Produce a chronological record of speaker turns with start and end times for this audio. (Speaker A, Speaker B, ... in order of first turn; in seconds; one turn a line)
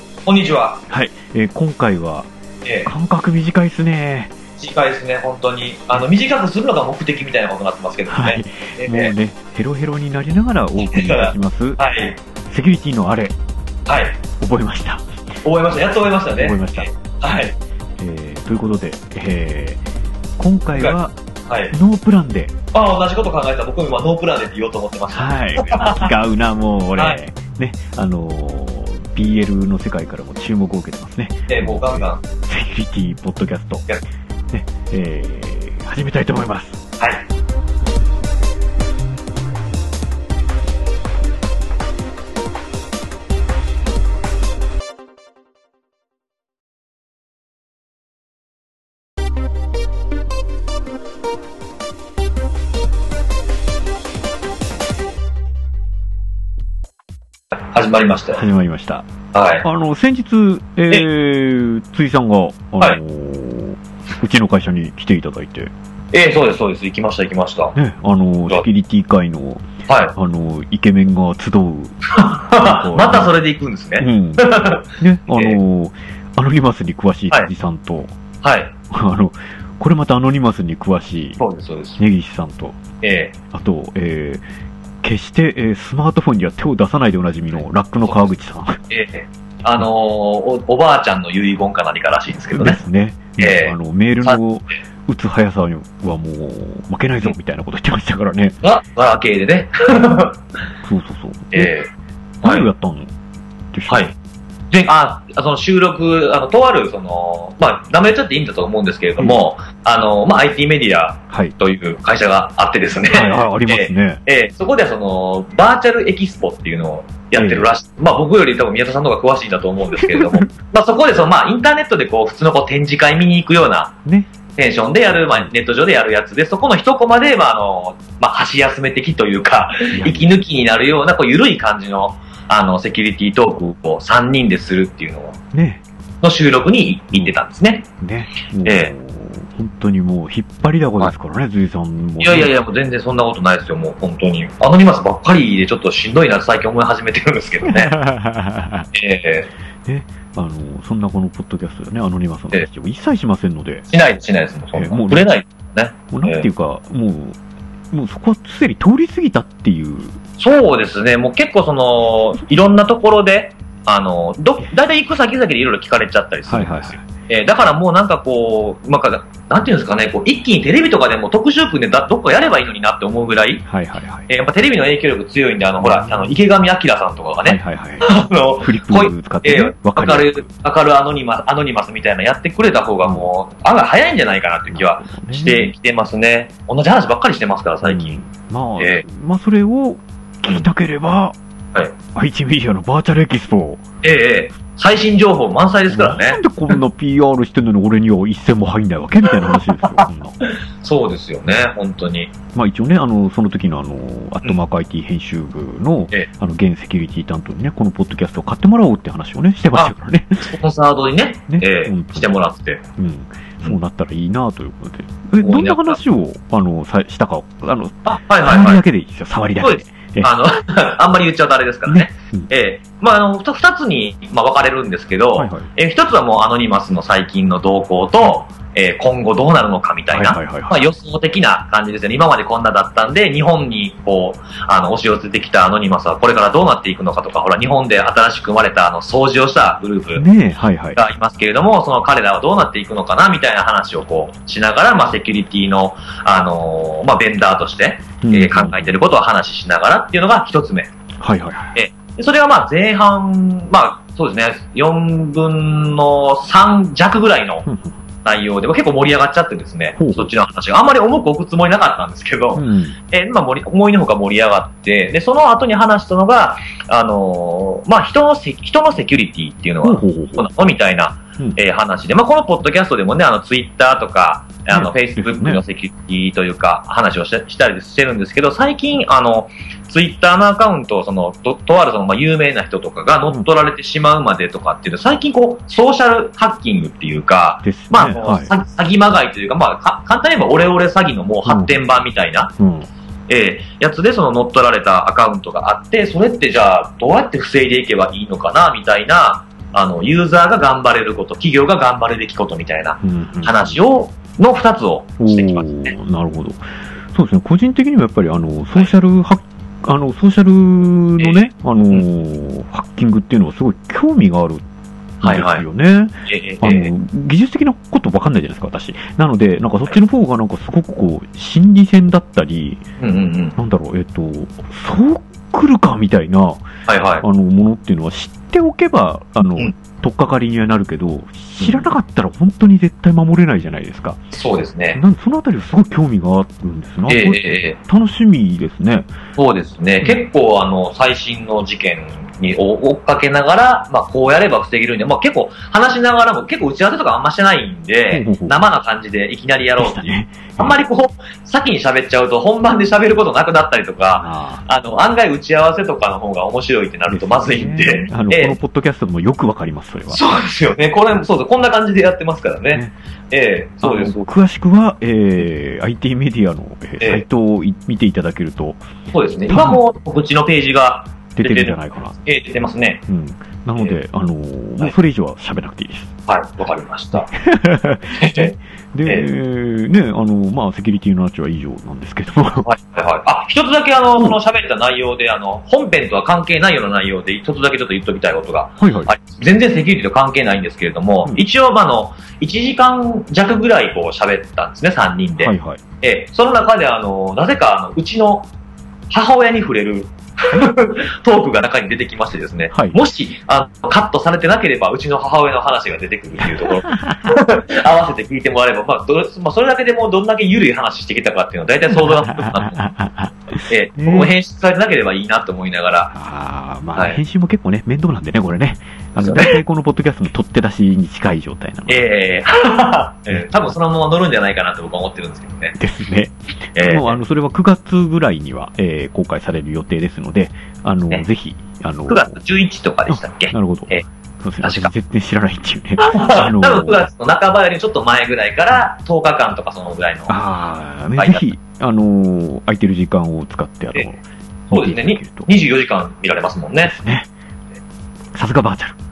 Speaker A: 0.2-0.8
Speaker B: 0.9-2.3
Speaker A: 2.6-2.9
Speaker B: 2.8-4.3
Speaker A: 4.6-9.1
Speaker B: 8.1-11.8
Speaker A: 10.8-12.2
Speaker B: 12.5-13.3
Speaker A: 13.9-14.2
Speaker B: 14.4-15.1
Speaker A: 15.4-17.5
Speaker B: 16.4-16.9
Speaker B: 18.0-19.8
Speaker B: 20.4-21.1
Speaker A: 21.5-21.7
Speaker B: 21.7-22.5
Speaker A: 22.7-26.1
Speaker B: 25.1-33.9
Speaker A: 31.5-32.2
Speaker B: 34.5-36.8
Speaker A: 57.5-58.4
Speaker B: 58.3-59.1
Speaker A: 59.3-59.6
Speaker B: 59.6-65.7
Speaker A: 66.1-67.8
Speaker B: 67.7-72.0
Speaker A: 69.9-70.1
Speaker A: 72.1-75.6
Speaker B: 72.6-73.3
Speaker B: 74.0-78.1
Speaker A: 78.4-78.7
Speaker B: 78.9-81.4
Speaker A: 81.4-82.0
Speaker B: 82.0-82.8
Speaker A: 83.0-83.3
Speaker B: 83.5-84.4
Speaker B: 85.0-88.8
Speaker A: 88.0-88.3
Speaker A: 88.9-92.8
Speaker B: 92.5-98.6
Speaker A: 93.4-94.4
Speaker A: 98.6-100.4
Speaker B: 100.8-101.7
Speaker A: 101.5-101.9
Speaker A: 102.4-102.7
Speaker B: 102.4-103.1
Speaker B: 103.7-104.1
Speaker A: 104.7-123.9
Speaker B: 111.3-111.5
Speaker B: 113.1-114.2
Speaker B: 117.3-117.7
Speaker B: 120.0-120.5
Speaker A: 124.5-135.4
Speaker B: 129.9-130.4
Speaker B: 135.5-135.8
Speaker A: 136.2-137.8
Speaker B: 138.0-142.5
Speaker A: 138.6-138.9
Speaker A: 142.2-148.0
Speaker B: 147.6-148.9
Speaker A: 148.9-149.5
Speaker B: 149.8-153.8
Speaker A: 153.9-156.4
Speaker B: 154.7-155.3
Speaker B: 156.1-157.4
Speaker B: 157.9-160.2
Speaker A: 160.4-173.7
Speaker B: 166.5-167.0
Speaker B: 173.7-174.3
Speaker A: 174.3-188.2
Speaker B: 175.8-176.4
Speaker B: 177.4-180.5
Speaker B: 183.0-183.3
Speaker B: 184.7-185.7
Speaker B: 187.8-191.3
Speaker A: 188.8-189.0
Speaker B: 192.1-193.8
Speaker A: 194.0-196.4
Speaker B: 195.9-200.4
Speaker A: 199.5-202.3
Speaker B: 202.5-210.5
Speaker A: 209.7-212.8
Speaker B: 211.5-212.3
Speaker B: 213.0-220.3
Speaker A: 215.4-216.0
Speaker A: 218.1-218.8
Speaker A: 219.6-240.2
Speaker B: 221.9-222.5
Speaker B: 225.4-225.7
Speaker B: 230.1-230.8
Speaker B: 240.1-241.0
Speaker A: 240.9-250.9
Speaker B: 248.2-249.1
Speaker B: 251.2-251.8
Speaker A: 251.7-257.7
Speaker B: 257.6-258.0
Speaker A: 258.2-292.5
Speaker B: 259.9-260.3
Speaker B: 262.5-263.0
Speaker B: 269.8-270.5
Speaker B: 274.7-275.6
Speaker B: 287.6-288.5
Speaker B: 291.4-291.8
Speaker B: 292.6-292.9
Speaker A: 293.3-305.9
Speaker B: 303.0-303.8
Speaker B: 305.2-314.6
Speaker A: 311.2-312.0
Speaker A: 315.2-315.6
Speaker B: 315.2-322.8
Speaker A: 316.2-316.9
Speaker A: 323.0-323.6
Speaker B: 323.6-326.6
Speaker A: 326.9-327.2
Speaker B: 327.2-334.2
Speaker A: 331.6-331.9
Speaker A: 334.3-335.0
Speaker B: 334.9-339.1
Speaker A: 337.1-337.8
Speaker A: 339.4-358.6
Speaker B: 348.1-348.6
Speaker B: 349.8-350.8
Speaker B: 354.1-354.6
Speaker B: 357.1-360.2
Speaker A: 360.1-364.3
Speaker B: 363.8-368.8
Speaker A: 367.0-367.2
Speaker A: 369.1-373.0
Speaker B: 369.5-369.8
Speaker B: 371.4-372.2
Speaker B: 373.1-376.1
Speaker A: 376.3-377.3
Speaker B: 377.1-382.7
Speaker A: 378.1-379.3
Speaker A: 382.6-398.5
Speaker B: 388.8-389.1
Speaker B: 395.4-395.8
Speaker A: 399.1-412.9
Speaker B: 402.7-403.0
Speaker B: 406.6-407.3
Speaker B: 412.0-414.3
Speaker A: 413.7-416.1
Speaker B: 416.1-422.0
Speaker A: 419.2-419.6
Speaker A: 421.9-425.8
Speaker B: 423.3-423.7
Speaker B: 425.8-432.4
Speaker A: 426.8-427.2
Speaker A: 432.1-434.1
Speaker B: 433.1-437.1
Speaker A: 434.6-434.9
Speaker A: 436.0-440.4
Speaker B: 440.3-445.5
Speaker A: 441.1-441.5
Speaker A: 444.7-446.9
Speaker B: 446.8-447.3
Speaker B: 448.3-449.0